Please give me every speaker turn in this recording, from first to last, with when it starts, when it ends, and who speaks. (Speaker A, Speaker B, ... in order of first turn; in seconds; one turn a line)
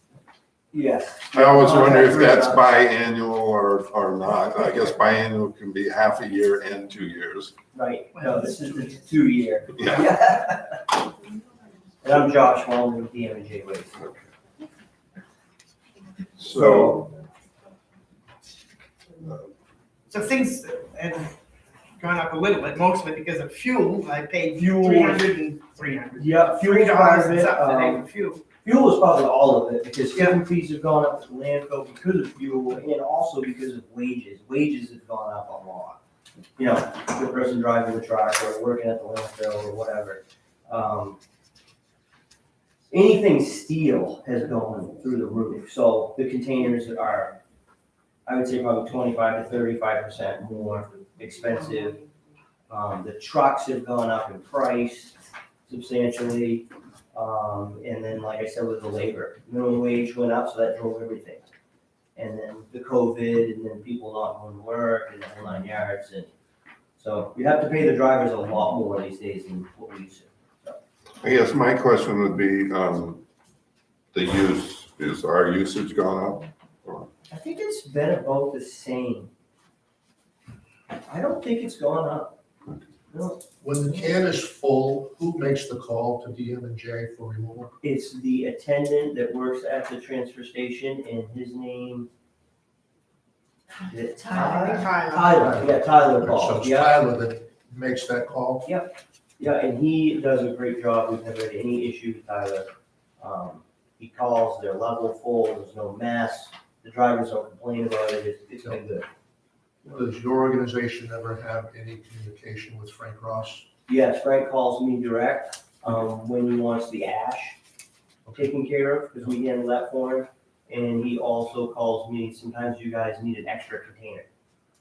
Speaker A: 0.7-2.6
Speaker B: 1.3-7.5
Speaker A: 7.7-10.8
Speaker A: 12.0-13.9
Speaker B: 16.4-17.0
Speaker A: 16.5-17.1
Speaker C: 20.1-21.4
Speaker C: 22.0-28.4
Speaker A: 24.6-25.3
Speaker A: 26.1-28.0
Speaker A: 28.6-36.0
Speaker A: 36.6-41.2
Speaker A: 42.9-47.4
Speaker A: 48.2-52.0
Speaker A: 52.7-61.5
Speaker A: 62.1-66.3
Speaker A: 67.0-70.8
Speaker B: 71.2-73.2
Speaker B: 74.1-77.1
Speaker A: 77.3-79.3
Speaker A: 81.0-82.3
Speaker A: 83.1-83.4
Speaker D: 83.6-87.7
Speaker A: 87.8-92.1
Speaker A: 93.8-97.0
Speaker C: 94.3-95.7
Speaker D: 96.0-98.7
Speaker A: 98.6-102.7
Speaker A: 103.2-109.0
Speaker D: 108.6-108.9
Speaker D: 109.8-113.7
Speaker A: 113.9-117.6
Speaker D: 118.2-118.5
Speaker A: 118.3-124.3